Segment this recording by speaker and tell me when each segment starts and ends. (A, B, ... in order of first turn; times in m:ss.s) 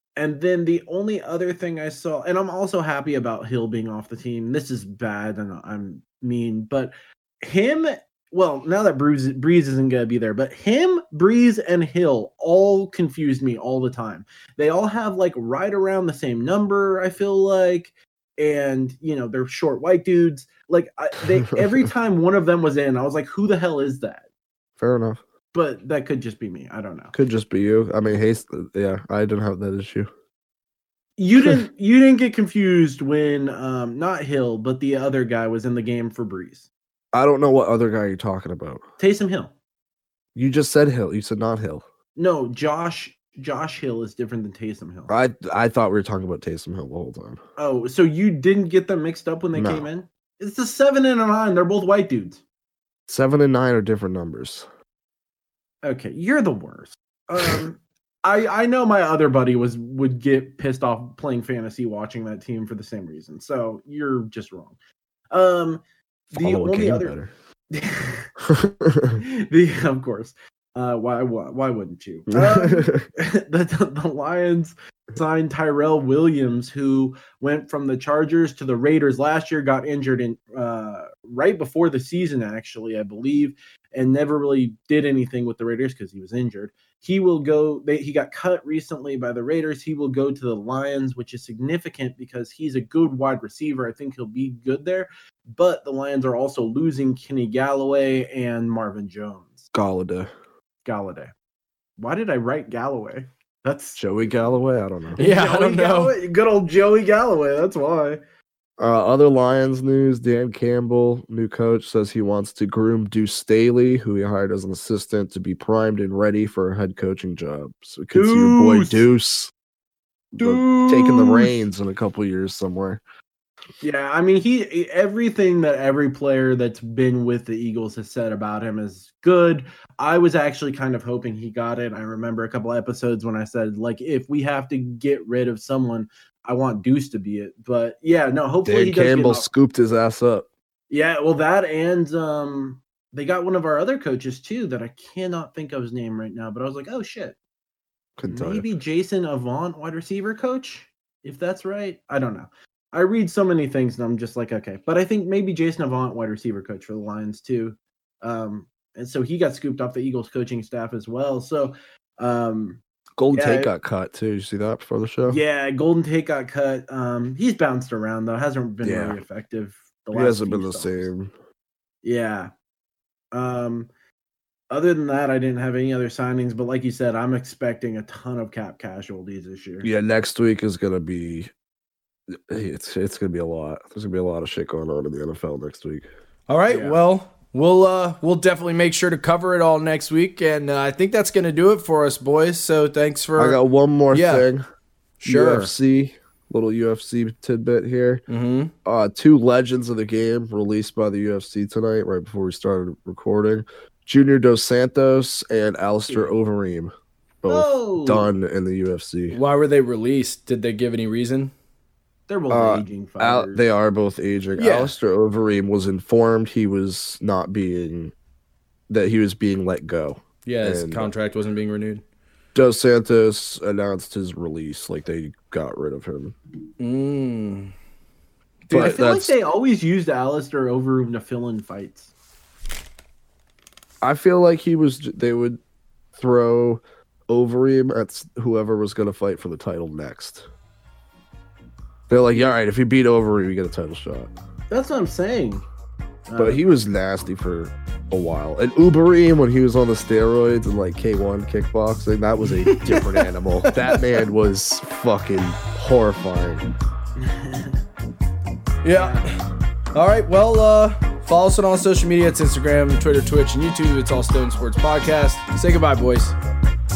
0:00.2-0:24.2 A
0:21.4-0:21.9 B
0:24.8-0:25.2 B
0:25.5-0:27.1 A
0:27.1-0:30.1 B
0:31.2-0:36.7 A
0:37.1-0:38.8 B
0:39.0-0:39.5 A
0:40.4-0:41.8 B
0:42.2-0:45.1 A
0:45.1-0:47.4 B
0:47.6-0:52.4 A
0:49.6-0:49.9 B
0:53.1-0:54.7 B
0:55.8-1:04.8 A
1:05.3-1:05.8 A
1:06.4-1:07.3 B
1:06.4-1:07.1 A
1:07.7-1:08.3 A
1:08.4-1:09.2 B
1:09.2-1:39.7 A
1:12.3-1:13.0 B
1:39.7-1:40.3 B
1:40.9-1:41.3 A
1:42.0-1:44.0 A
1:44.0-1:45.2 B
1:45.2-1:48.2 A
1:45.2-1:46.1 C
1:48.8-1:59.5 B
1:58.1-1:59.0 A
2:00.3-2:03.0 B
2:00.4-2:01.5 A
2:03.8-2:19.5 A
2:18.6-2:20.5 B
2:20.9-2:27.4 A
2:28.2-2:28.7 B
2:28.3-2:42.8 A
2:43.2-2:45.4 B
2:43.3-2:43.7 A
2:45.3-2:51.1 A
2:48.8-2:49.2 B
2:50.1-2:51.3 B
2:52.0-2:52.5 A
2:53.3-2:53.9 A
2:54.7-2:59.9 A
2:59.8-3:01.5 B
3:02.3-3:06.0 B
3:06.5-3:13.6 C
3:06.7-3:07.0 A
3:13.4-3:14.7 B
3:14.1-3:14.4 C
3:15.2-3:15.7 C
3:15.3-3:18.2 B
3:18.3-3:18.7 C
3:18.8-3:26.9 B
3:26.1-3:26.4 A
3:27.4-3:29.4 B
3:27.5-3:28.3 A
3:29.3-3:31.5 C
3:32.3-3:33.6 A
3:32.5-3:38.1 B
3:34.6-3:34.9 C
3:38.9-3:41.1 B
3:40.4-3:42.0 C
3:42.6-3:46.4 B
3:46.8-3:47.7 C
3:48.7-3:49.0 C
3:48.7-3:52.1 A
3:48.7-3:49.3 B
3:54.0-3:55.6 B
3:56.2-4:00.5 B
4:02.1-4:04.3 B
4:04.7-4:05.6 A
4:06.3-4:06.6 A
4:06.4-4:16.6 B
4:12.6-4:14.0 C
4:17.2-4:17.8 A
4:18.8-4:19.4 C
4:18.9-4:19.3 A
4:19.9-4:26.4 C